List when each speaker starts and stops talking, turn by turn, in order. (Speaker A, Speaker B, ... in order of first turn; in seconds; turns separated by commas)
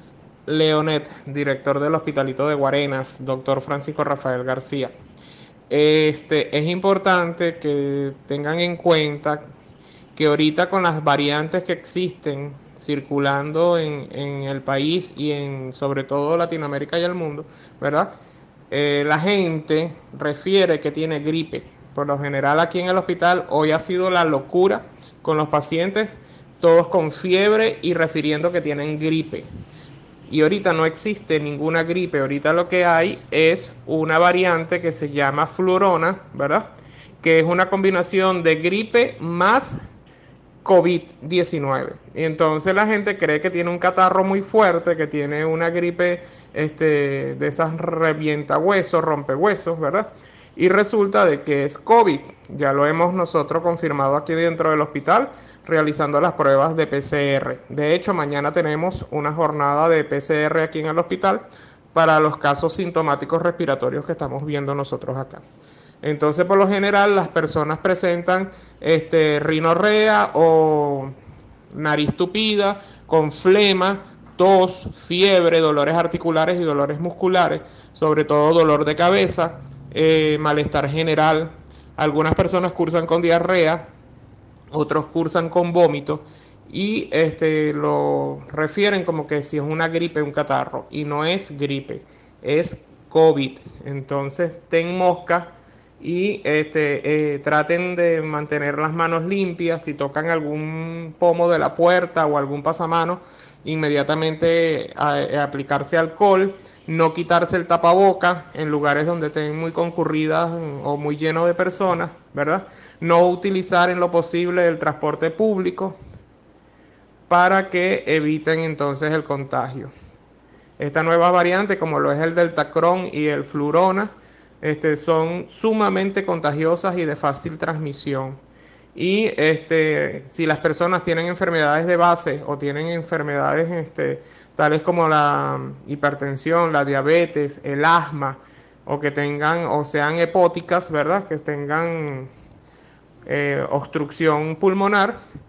Speaker A: 0.5-4.9, Speaker A: 5.7-9.4, Speaker A: 10.1-18.1, Speaker A: 18.7-29.5, Speaker A: 30.3-36.7, Speaker A: 37.2-39.8, Speaker A: 40.6-65.4, Speaker A: 66.0-71.1, Speaker A: 71.7-83.9, Speaker A: 84.7-116.0, Speaker A: 117.3-119.9, Speaker A: 120.8-128.4, Speaker A: 128.9-142.3, Speaker A: 143.2-145.2